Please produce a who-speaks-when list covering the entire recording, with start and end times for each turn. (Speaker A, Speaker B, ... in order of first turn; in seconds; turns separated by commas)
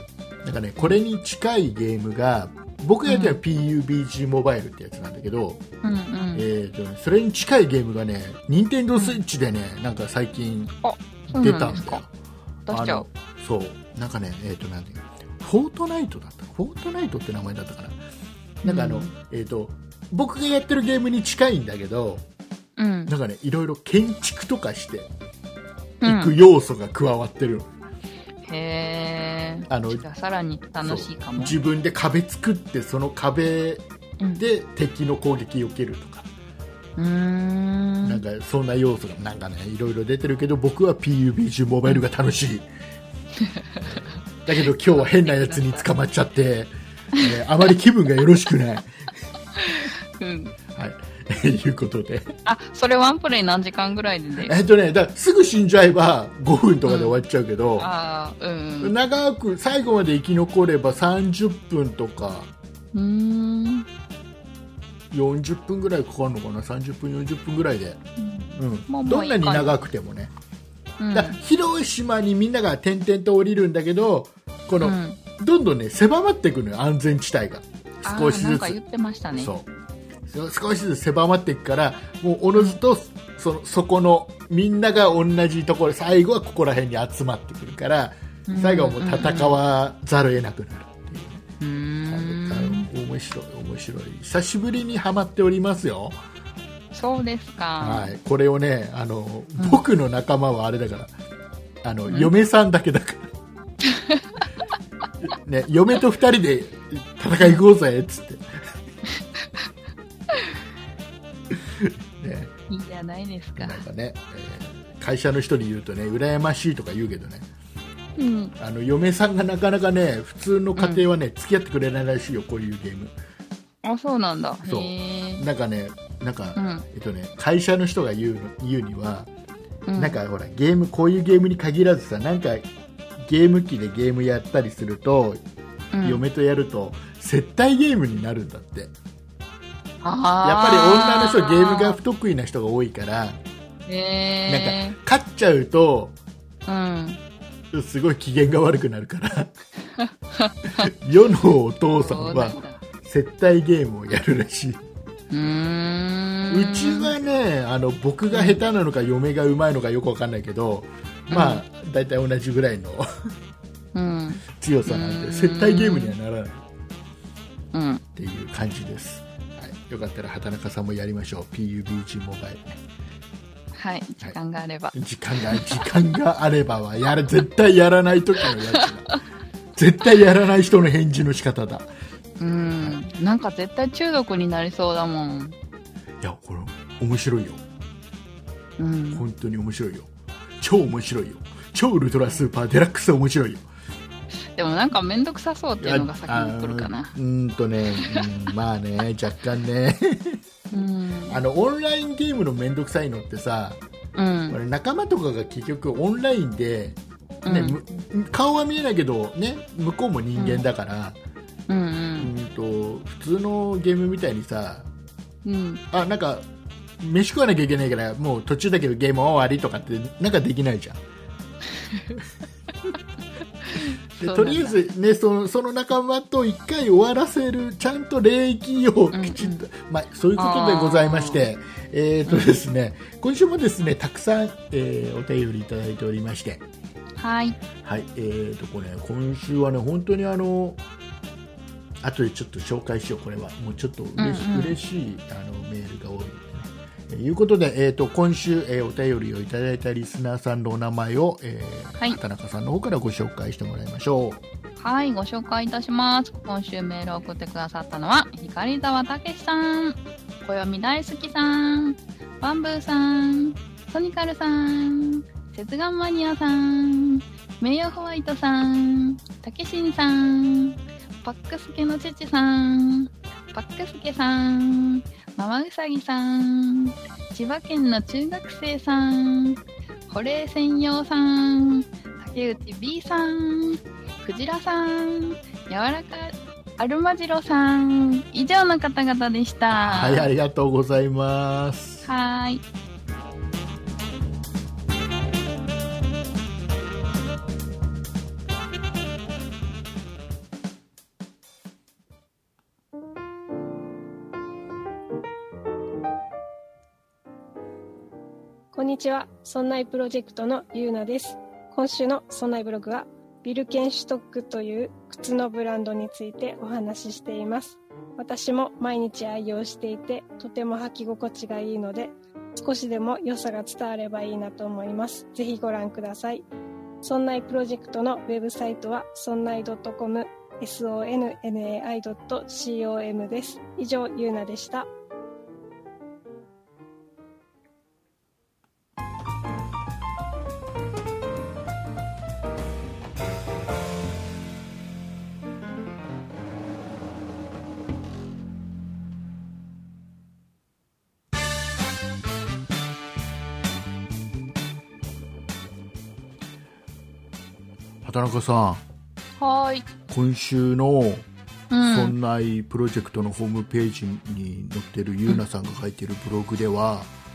Speaker A: 0.4-5.6, Speaker B: 3.1-3.4, Speaker B: 5.8-6.5, Speaker A: 6.3-10.8, Speaker B: 10.8-12.0, Speaker A: 11.3-12.1, Speaker B: 12.7-13.1, Speaker A: 12.7-18.0, Speaker A: 18.6-22.2, Speaker B: 18.6-19.1, Speaker B: 22.8-23.1, Speaker A: 23.1-25.1, Speaker B: 26.0-26.3, Speaker A: 26.0-27.7, Speaker B: 28.4-31.6, Speaker A: 29.7-30.0, Speaker A: 30.8-33.9, Speaker A: 34.4-36.3, Speaker B: 37.0-38.2, Speaker A: 38.0-42.6, Speaker B: 43.4-44.0, Speaker A: 43.8-49.1, Speaker B: 44.6-45.9, Speaker B: 49.6-50.5, Speaker A: 50.8-52.3, Speaker B: 52.5-54.5, Speaker A: 54.5-57.9, Speaker B: 56.9-57.2, Speaker B: 57.8-59.0, Speaker A: 58.8-62.5, Speaker B: 62.9-63.9, Speaker A: 65.1-68.0, Speaker B: 68.2-69.8, Speaker A: 68.6-70.3, Speaker B: 71.0-71.4, Speaker A: 71.1-78.8, Speaker B: 74.8-75.2, Speaker B: 78.0-79.5, Speaker A: 79.4-79.7, Speaker A: 80.3-91.5, Speaker B: 88.5-89.6, Speaker B: 91.6-92.9, Speaker A: 92.1-96.2, Speaker B: 96.9-98.1, Speaker A: 97.8-101.1, Speaker B: 99.6-99.8, Speaker A: 101.8-103.3, Speaker B: 103.9-104.4, Speaker A: 105.2-108.4, Speaker A: 111.5-112.5, Speaker B: 112.7-113.8, Speaker A: 113.6-117.5, Speaker B: 118.2-118.5, Speaker A: 118.6-123.2, Speaker B: 120.8-121.0, Speaker B: 123.8-125.4, Speaker A: 124.6-129.3, Speaker B: 126.6-126.8, Speaker B: 129.9-130.2, Speaker A: 130.0-132.7, Speaker A: 133.2-135.4, Speaker B: 135.9-136.2, Speaker A: 136.0-138.9, Speaker B: 140.0-142.0, Speaker A: 140.4-143.4, Speaker B: 143.9-145.0, Speaker A: 144.5-146.2, Speaker B: 146.7-147.2, Speaker A: 147.7-149.5, Speaker B: 150.0-150.9, Speaker A: 150.8-154.8, Speaker B: 151.9-152.8, Speaker B: 155.3-157.1, Speaker A: 156.5-163.1, Speaker B: 158.3-158.6, Speaker B: 161.3-161.6, Speaker B: 163.9-166.1, Speaker A: 164.5-166.6, Speaker B: 167.7-168.0, Speaker A: 168.2-172.8, Speaker B: 173.8-175.9, Speaker A: 174.9-179.2, Speaker B: 178.5-179.1, Speaker A: 179.8-181.9, Speaker B: 182.4-185.6, Speaker A: 186.2-187.6, Speaker B: 188.8-189.3, Speaker A: 189.1-190.1, Speaker A: 190.6-193.7, Speaker B: 194.6-197.2, Speaker A: 195.8-200.4, Speaker B: 197.9-198.3, Speaker B: 200.7-201.4, Speaker A: 201.3-203.8, Speaker B: 204.2-204.6, Speaker A: 204.5-211.2, Speaker B: 207.4-208.0, Speaker B: 210.4-210.7, Speaker B: 211.7-212.3, Speaker A: 212.2-214.9, Speaker B: 215.4-215.8, Speaker A: 215.9-216.4, Speaker A: 217.0-221.0, Speaker B: 221.7-222.2, Speaker B: 223.7-224.8, Speaker A: 224.2-236.6, Speaker B: 229.1-229.6, Speaker B: 230.4-231.4, Speaker B: 232.3-232.6, Speaker B: 237.2-237.6, Speaker A: 237.8-240.8, Speaker A: 242.0-254.4, Speaker B: 244.2-244.8, Speaker B: 254.8-290.3, Speaker A: 289.7-292.1, Speaker B: 292.1-292.6, Speaker C: 308.7-326.5, Speaker C: 327.0-334.9, Speaker A: 358.0-358.8, Speaker B: 359.4-359.9, Speaker A: 360.1-361.3, Speaker B: 361.7-362.1, Speaker A: 361.8-367.1